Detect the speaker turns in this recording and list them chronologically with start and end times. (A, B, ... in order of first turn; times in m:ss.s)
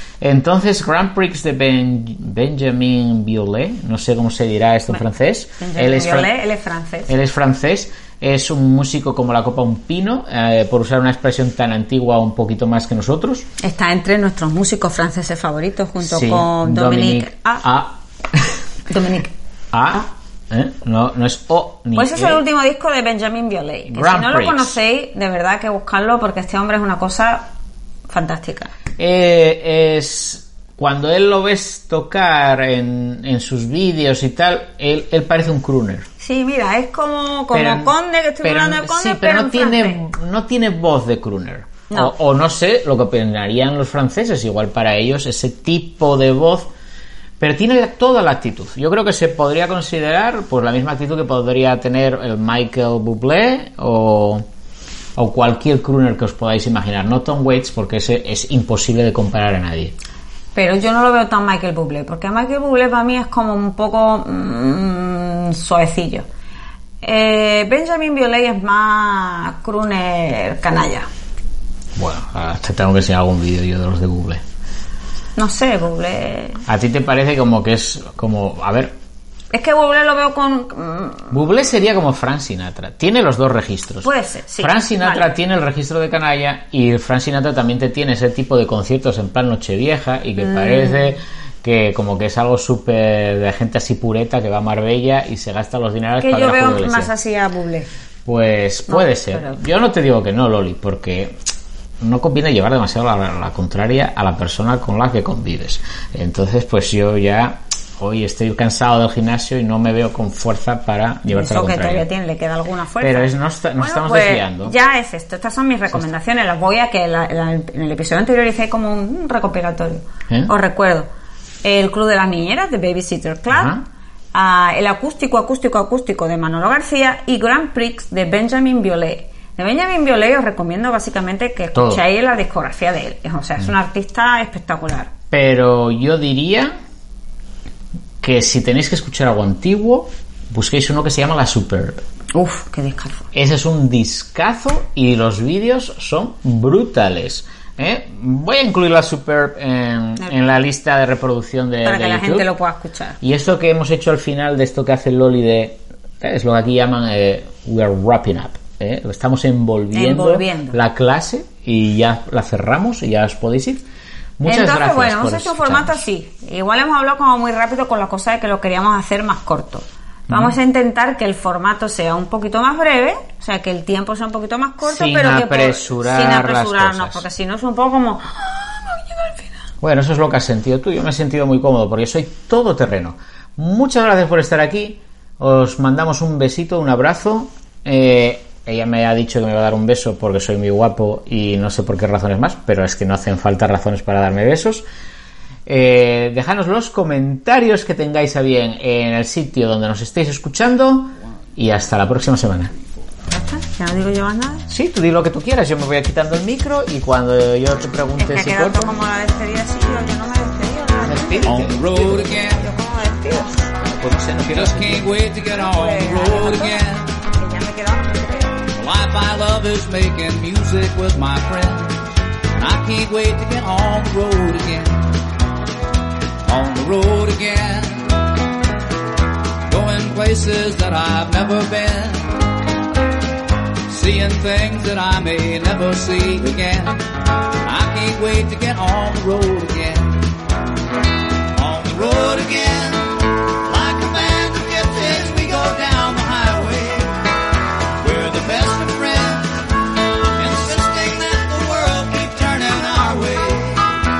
0:00.2-0:06.3 A
0:05.6-0:07.1 B
0:07.1-0:13.5 A
0:13.6-0:17.6 B
0:16.0-0:18.6 A
0:18.9-0:19.3 B
0:19.7-0:22.4 A
0:21.9-0:27.5 B
0:23.9-0:24.8 A
0:28.1-0:28.7 B
0:29.0-0:36.0 A
0:36.2-0:40.0 B
0:37.5-0:46.7 A
0:41.9-0:42.1 B
0:47.4-0:54.4 A
0:55.2-1:00.0 A
1:00.6-1:06.3 B
1:07.0-1:11.1 B
1:12.0-1:14.4 A
1:15.4-1:16.6 B
1:16.6-1:19.0 A
1:19.5-1:21.3 B
1:21.3-1:37.1 A
1:24.0-1:25.3 B
1:30.4-1:31.1 B
1:36.2-1:37.9 B
1:38.3-1:41.4 A
1:38.9-1:39.6 B
1:42.0-1:52.0 A
1:51.3-2:01.1 B
1:53.0-1:54.7 A
2:01.6-2:03.8 B
2:03.5-2:03.8 A
2:04.3-2:15.1 B
2:11.7-2:12.0 A
2:15.3-2:16.8 A
2:18.2-2:22.0 A
2:22.3-2:23.3 B
2:23.3-2:32.5 A
2:31.8-2:33.2 B
2:33.2-2:43.8 A
2:39.9-2:40.8 B
2:44.4-2:46.0 A
2:44.4-2:59.6 B
2:50.3-2:50.6 A
2:54.8-2:57.2 A
2:59.8-3:14.8 A
3:15.6-3:22.7 A
3:23.3-3:24.7 B
3:24.7-3:29.0 A
3:28.2-3:33.8 B
3:31.0-3:31.9 A
3:31.4-3:32.7 C
3:34.0-3:35.1 A
3:34.5-3:37.2 C
3:35.5-3:38.6 B
3:38.7-3:45.1 C
3:46.4-3:48.2 C
3:49.7-3:52.3 C
3:53.9-3:57.0 C
3:57.6-4:00.3 C
4:01.6-4:07.3 C
4:08.0-4:09.7 C
4:10.3-4:13.9 C